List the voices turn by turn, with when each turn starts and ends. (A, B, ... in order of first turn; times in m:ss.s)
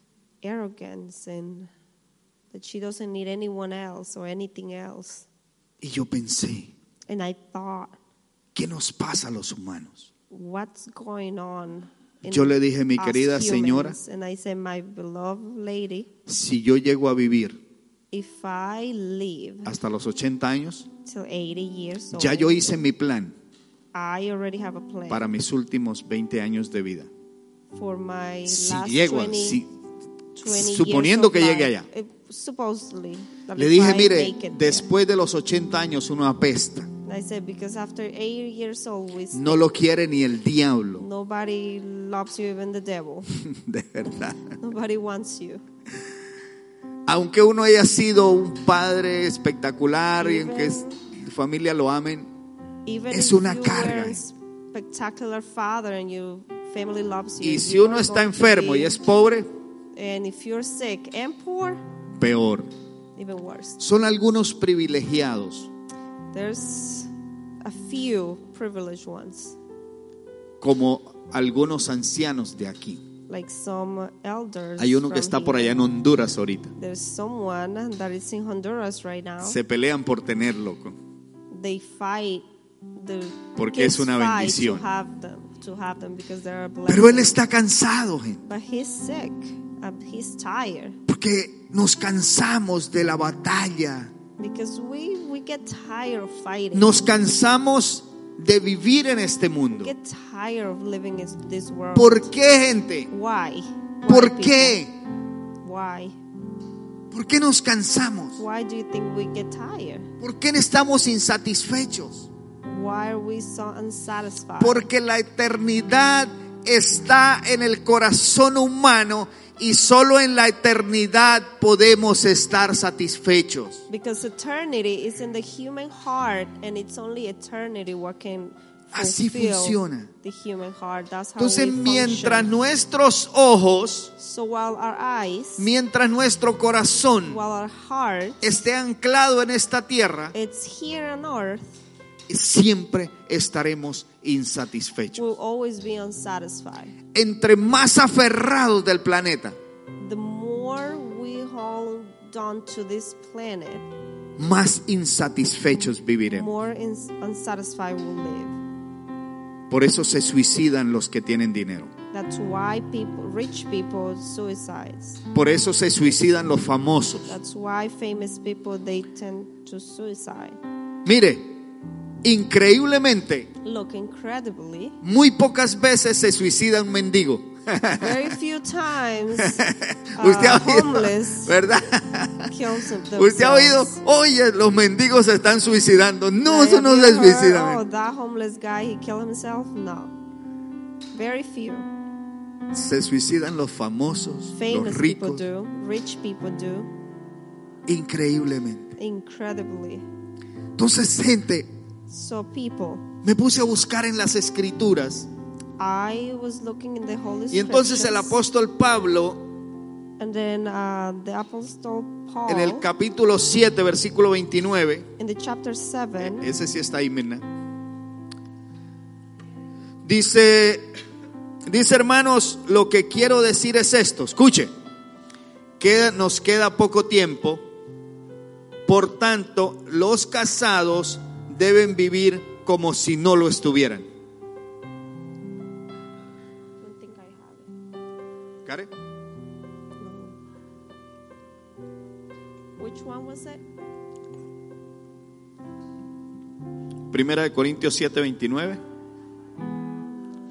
0:00.4-0:01.7 A
0:02.5-0:05.3 A
0:05.8-0:06.7 B
0:07.1-0:08.0 A
0:08.5-0:10.1 B
0:10.3-0:16.1 A
0:12.2-0:14.0 B
0:16.3-0:17.6 B
0:18.1-0:19.7 A
0:19.6-0:20.9 B
0:21.0-0:22.8 A
0:22.1-0:23.3 B
0:23.9-0:25.2 A
0:25.1-0:27.1 B
0:27.7-0:29.6 A
0:28.4-0:29.7 B
0:30.4-0:34.9 A
0:30.4-0:31.9 B
0:33.6-0:36.9 B
0:37.0-0:39.7 A
0:39.3-0:41.0 B
0:41.0-0:43.3 A
0:43.3-0:44.5 B
0:44.6-0:45.6 A
0:47.1-0:52.3 B
0:50.2-0:51.0 A
0:52.8-0:59.1 A
0:53.1-0:54.2 B
0:57.4-0:59.5 B
0:59.9-1:01.8 A
1:02.2-1:02.7 B
1:03.2-1:03.8 A
1:03.8-1:05.7 B
1:06.3-1:07.1 A
1:07.6-1:09.6 A
1:10.6-1:13.0 B
1:13.3-1:15.8 A
1:14.8-1:16.7 B
1:16.8-1:19.6 A
1:19.4-1:21.0 B
1:21.5-1:27.4 A
1:23.6-1:24.8 B
1:26.9-1:28.4 B
1:28.4-1:31.0 A
1:31.1-1:34.1 B
1:34.4-1:37.0 A
1:36.7-1:39.9 B
1:39.7-1:42.3 A
1:41.9-1:43.1 B
1:43.1-1:44.8 A
1:44.1-1:44.9 B
1:45.6-1:46.2 A
1:47.1-1:48.4 B
1:48.4-1:50.1 A
1:50.2-1:52.3 B
1:52.6-1:54.8 A
1:54.6-2:03.8 B
2:03.9-2:12.5 A
2:08.9-2:10.1 B
2:11.4-2:14.1 B
2:14.2-2:15.7 A
2:15.6-2:17.4 B
2:17.3-2:18.4 A
2:18.4-2:20.3 B
2:20.3-2:21.7 A
2:22.3-2:25.2 B
2:25.1-2:27.0 A
2:27.1-2:29.6 B
2:30.0-2:33.9 A
2:34.4-2:36.5 B
2:36.3-2:38.6 A
2:39.7-2:41.9 B
2:42.1-2:45.2 A
2:45.3-2:47.3 B
2:47.3-2:50.6 A
2:51.0-2:51.6 B
2:52.2-2:53.5 B
2:53.6-2:55.0 A
2:55.0-2:58.3 B
2:58.0-2:59.6 A
2:59.4-3:02.5 B
3:00.2-3:01.6 A
3:02.5-3:04.0 A
3:03.2-3:07.8 B
3:06.4-3:10.1 A
3:11.1-3:11.9 A
3:12.7-3:15.4 B
3:14.5-3:16.9 A
3:17.8-3:18.9 B
3:19.0-3:20.0 A
3:20.8-3:21.7 B
3:22.1-3:23.1 A
3:23.2-3:25.3 B
3:25.8-3:28.4 A
3:27.5-3:29.4 B
3:30.2-3:32.8 A
3:32.5-3:35.1 B
3:35.2-3:36.5 A
3:36.2-3:37.4 B
3:40.0-3:40.8 B
3:41.7-3:44.7 B
3:45.8-3:47.6 B
3:48.8-3:54.1 B
3:56.8-3:57.7 A
3:58.6-3:58.9 B
4:00.0-4:00.4 A
4:02.8-4:03.6 A
4:07.1-4:08.8 B